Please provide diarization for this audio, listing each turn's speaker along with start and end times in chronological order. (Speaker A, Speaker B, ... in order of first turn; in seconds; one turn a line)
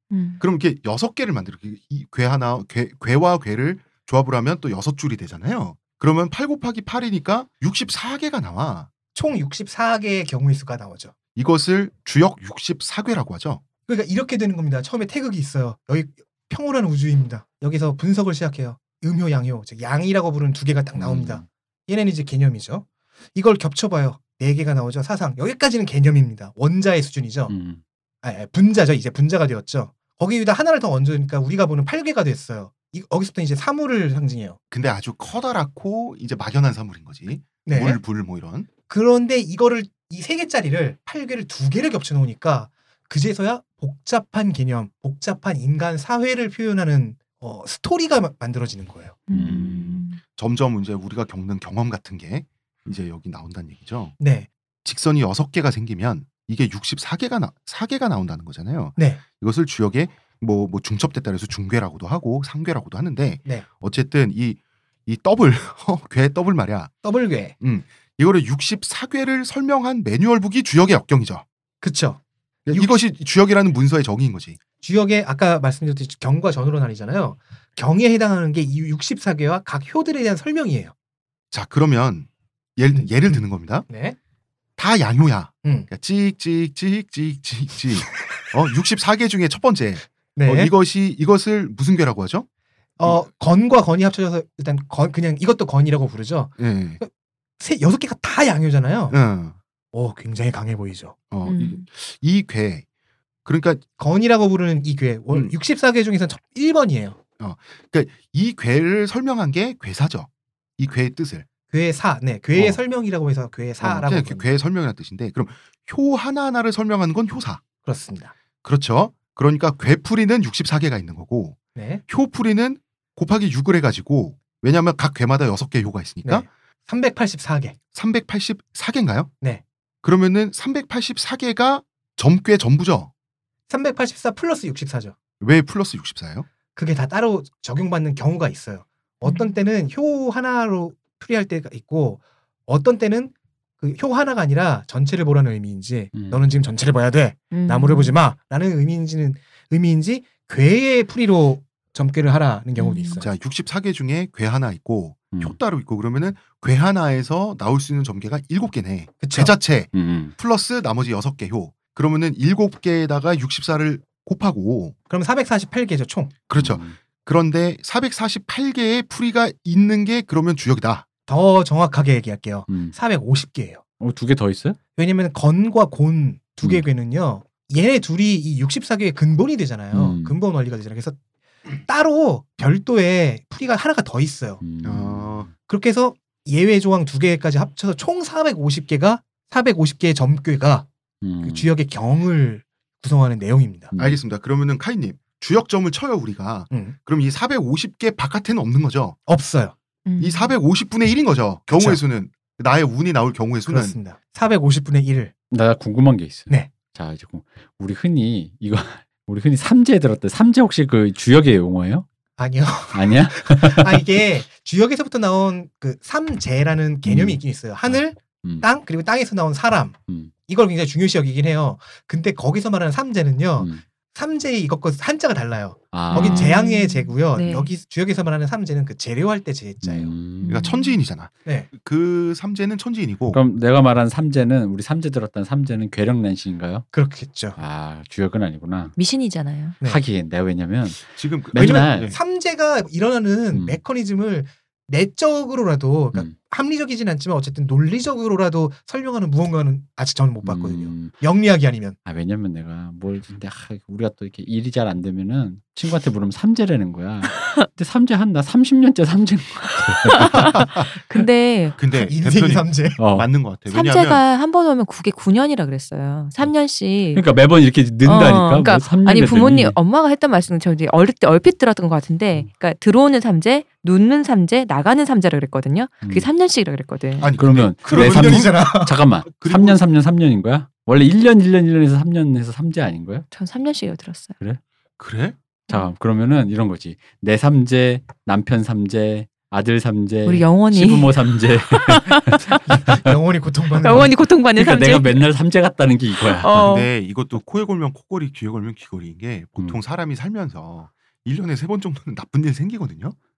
Speaker A: 0.1-0.4
Speaker B: 0.4-8.9
Speaker C: 9.1-11.1
Speaker B: 11.3-13.6
Speaker C: 13.9-27.5
Speaker D: 20.9-21.4
Speaker D: 27.5-27.8
Speaker C: 28.2-34.6
Speaker B: 34.7-38.7
Speaker C: 37.6-38.0
Speaker C: 38.9-49.2
Speaker A: 49.3-50.2
Speaker D: 49.3-49.9
Speaker B: 49.4-54.2
Speaker C: 54.2-54.5
Speaker B: 54.8-66.9
Speaker C: 59.0-59.2
Speaker C: 67.0-67.5
Speaker B: 67.6-71.4
Speaker C: 71.8-73.0
Speaker B: 72.7-74.6
Speaker C: 74.8-80.9
Speaker B: 81.5-83.9
Speaker C: 82.9-84.2
Speaker B: 84.8-92.5
Speaker C: 85.6-85.9
Speaker C: 90.3-90.7
Speaker C: 93.0-99.2
Speaker B: 93.0-93.3
Speaker B: 96.6-97.0
Speaker B: 99.1-99.5
Speaker C: 99.9-101.1
Speaker B: 101.3-102.8
Speaker A: 101.4-101.8
Speaker B: 103.5-103.8
Speaker C: 104.0-107.2
Speaker B: 107.4-111.5
Speaker C: 111.7-114.5
Speaker B: 112.5-112.8
Speaker B: 113.8-117.6
Speaker C: 117.8-118.3
Speaker B: 118.6-126.5
Speaker C: 121.7-122.0
Speaker C: 126.2-127.8
Speaker B: 127.9-129.3
Speaker B: 130.0-133.1
Speaker C: 133.7-135.2
Speaker B: 135.4-136.5
Speaker C: 136.7-153.3
Speaker A: 139.2-139.5
Speaker D: 146.1-146.4
Speaker A: 147.5-148.2
Speaker A: 152.8-153.2
Speaker B: 153.2-164.9
Speaker C: 159.2-159.6
Speaker D: 159.9-160.3
Speaker C: 165.1-166.3
Speaker B: 166.5-171.0
Speaker D: 166.5-167.0
Speaker C: 171.3-173.8
Speaker D: 172.7-172.9
Speaker D: 174.0-174.8
Speaker C: 175.0-181.2
Speaker D: 179.9-180.4
Speaker C: 181.8-184.6
Speaker D: 184.6-185.5
Speaker B: 184.8-185.5
Speaker C: 185.7-190.9
Speaker D: 191.2-191.7
Speaker C: 191.4-193.9
Speaker D: 193.9-194.2
Speaker B: 194.0-199.2
Speaker C: 196.7-196.9
Speaker C: 199.3-199.7
Speaker A: 200.1-200.5
Speaker B: 200.2-203.9
Speaker C: 201.7-202.0
Speaker C: 203.7-205.3
Speaker D: 205.5-212.0
Speaker C: 212.4-219.9
Speaker D: 212.9-214.0
Speaker D: 217.1-218.7
Speaker C: 220.5-230.1
Speaker D: 225.9-226.5
Speaker A: 226.1-227.7
Speaker D: 229.8-230.7
Speaker A: 230.4-231.0
Speaker B: 230.4-233.4
Speaker D: 233.3-236.9
Speaker C: 236.9-237.6
Speaker D: 237.6-238.9
Speaker A: 238.9-239.8
Speaker D: 239.8-242.1
Speaker B: 241.2-242.2
Speaker C: 241.6-251.9
Speaker D: 243.5-243.8
Speaker D: 250.4-251.1
Speaker D: 252.1-260.6
Speaker A: 260.1-261.8
Speaker B: 260.4-260.8
Speaker B: 261.8-264.2
Speaker C: 261.9-263.0
Speaker D: 263.0-263.3
Speaker A: 263.7-267.2
Speaker D: 267.1-269.8
Speaker A: 268.0-277.3
Speaker D: 276.0-276.3
Speaker B: 277.2-278.6
Speaker D: 277.4-283.2
Speaker C: 277.8-279.0
Speaker B: 279.3-279.8
Speaker A: 283.3-284.4
Speaker B: 285.0-285.4
Speaker D: 285.7-293.1
Speaker A: 290.2-291.2
Speaker A: 291.8-292.6
Speaker C: 292.6-294.1
Speaker A: 293.8-295.2
Speaker D: 293.9-296.7
Speaker A: 296.2-296.9
Speaker B: 296.6-303.1